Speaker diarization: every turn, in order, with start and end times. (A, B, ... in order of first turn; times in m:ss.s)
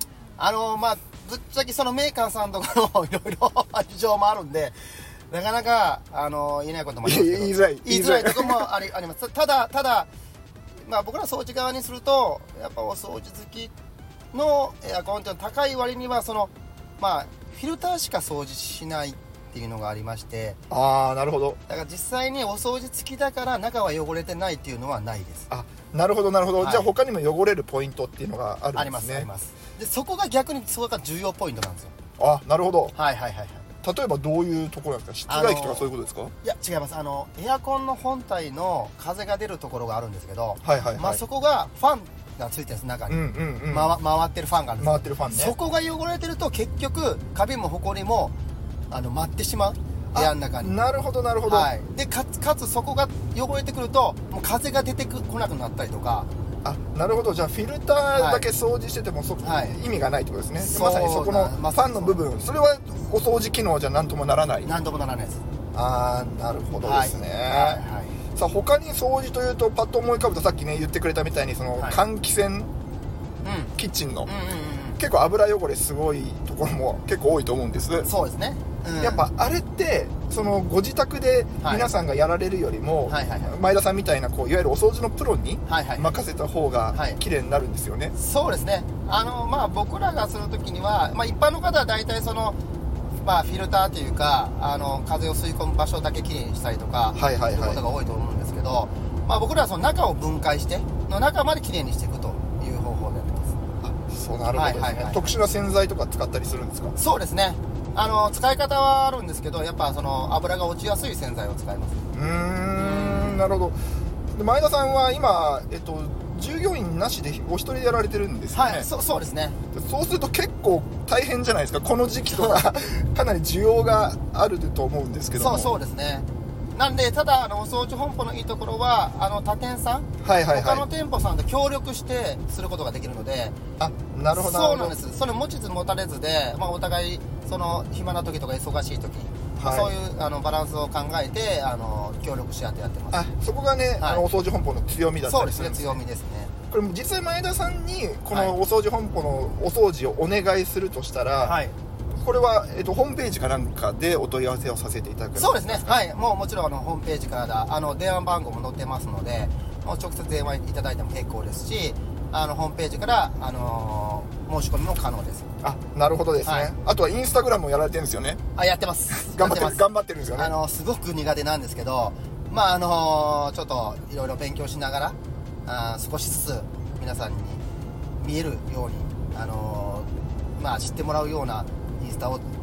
0:00.4-0:10.1 A
0:07.0-0:08.7 B
0:10.8-0:13.7 A
0:14.3-0:20.6 A
0:20.7-0:21.6 B
0:21.7-0:25.5 A
0:25.5-0:29.3 B
0:26.6-0:26.9 A
0:28.7-0:31.9 A
0:32.2-0:32.9 B
0:32.9-0:33.6 A
0:33.8-0:36.3 B
0:35.3-0:35.9 A
0:36.4-0:48.3 A
0:40.6-0:41.2 B
0:43.1-0:43.9 B
0:44.8-0:45.5 B
0:48.9-0:50.8 A
0:50.1-0:51.7 B
0:51.4-0:56.3 A
0:56.6-1:04.7 B
0:58.1-0:58.4 A
0:59.4-0:59.8 A
1:00.6-1:02.2 A
1:04.6-1:05.4 A
1:05.7-1:07.8 B
1:06.8-1:08.2 A
1:08.3-1:12.7 B
1:13.4-1:13.7 A
1:13.8-1:14.3 B
1:14.2-1:15.0 A
1:15.0-1:18.1 B
1:18.0-1:19.2 A
1:19.0-1:28.1 B
1:21.6-1:21.8 A
1:23.1-1:23.5 A
1:25.6-1:26.2 A
1:26.9-1:27.2 A
1:28.1-1:32.6 A
1:33.2-1:43.6 A
1:37.1-1:37.8 B
1:43.8-1:46.9 B
1:44.5-1:45.3 A
1:47.0-1:52.0 A
1:52.1-1:53.8 B
1:52.8-1:53.5 A
1:54.3-1:58.9 B
1:58.5-1:59.6 A
1:59.7-2:05.7 B
2:02.2-2:02.7 A
2:05.3-2:13.6 A
2:10.2-2:10.8 B
2:13.8-2:14.9 B
2:14.3-2:23.2 A
2:19.6-2:19.9 B
2:23.1-2:26.0 B
2:24.0-2:24.2 A
2:25.2-2:26.5 A
2:26.7-2:31.6 B
2:31.4-2:31.7 A
2:32.1-2:35.9 B
2:35.3-2:45.5 A
2:45.6-2:48.4 B
2:46.4-2:46.7 A
2:48.5-2:49.8 A
2:49.1-2:50.5 B
2:50.4-2:57.6 A
2:58.2-3:02.5 A